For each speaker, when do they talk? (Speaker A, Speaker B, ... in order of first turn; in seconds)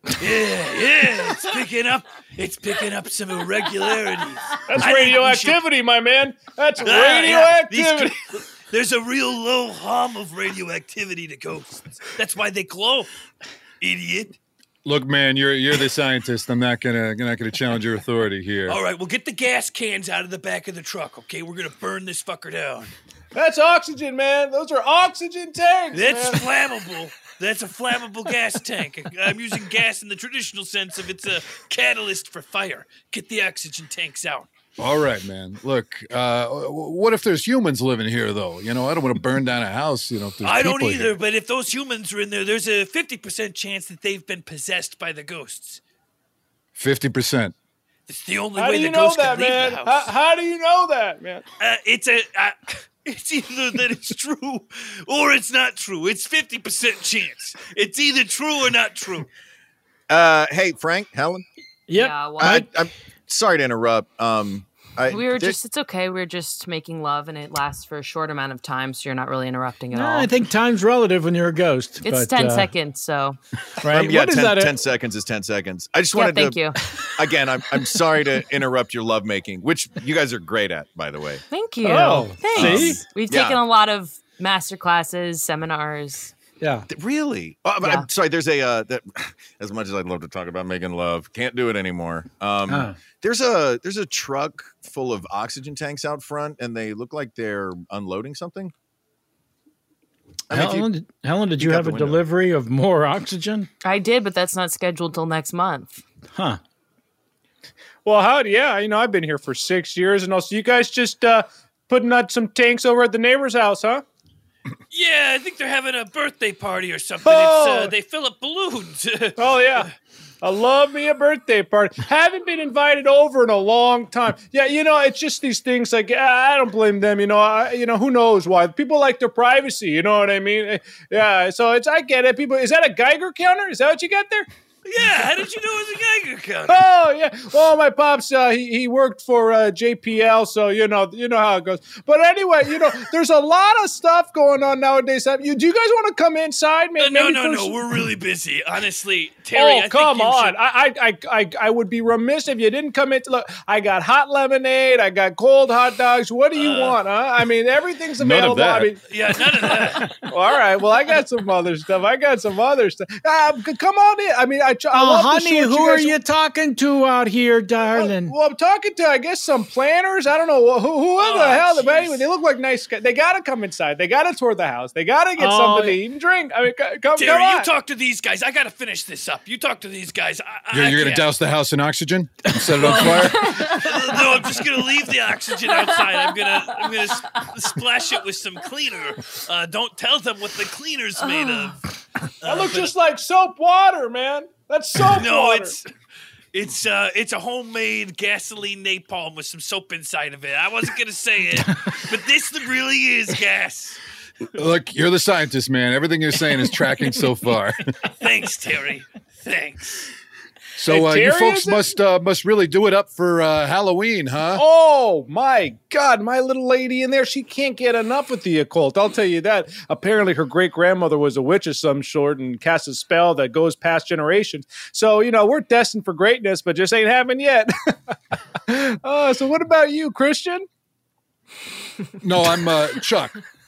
Speaker A: 0.2-5.6, 6.8-13.1, 13.8-14.3, 18.6-22.9, 25.9-34.5, 40.4-45.8, 48.1-50.1, 51.6-59.3, 114.9-119.8, 134.8-136.8, 147.0-150.6, 156.6-157.0, 159.1-160.2, 171.2-172.2, 177.2-181.3, 182.8-191.8, 192.4-192.9, 195.1-195.9, 196.5-204.0, 208.1-210.1
Speaker B: 4.7-8.2, 23.3-26.4, 48.5-51.4, 108.0-114.0, 117.2-117.9, 119.4-119.9, 120.4-134.5, 136.7-147.9, 149.5-159.0, 159.5-166.2, 167.9-177.7, 192.4-195.8, 210.9-211.9, 214.5-227.9, 228.7-230.7
Speaker C: 14.8-18.8, 34.8-41.2, 46.8-47.5, 158.2-158.9, 180.7-183.5, 204.6-207.8, 210.8-214.6, 232.2-233.3
Speaker D: 60.1-61.4, 62.4-65.6, 73.8-81.4, 82.5-83.6, 86.9-98.7, 100.5-100.9, 101.6-102.1
Speaker E: 61.9-62.6, 69.9-72.7, 73.8-74.8, 81.8-83.0, 86.6-86.8, 92.7-93.0, 100.5-103.7, 106.3-106.6, 164.9-168.3, 175.4-176.0
Speaker F: 61.9-62.6, 65.1-70.3, 72.0-73.4, 76.1-76.8, 81.5-86.3, 87.8-88.1, 103.8-106.0, 183.4-184.0, 185.7-187.4, 191.2-191.7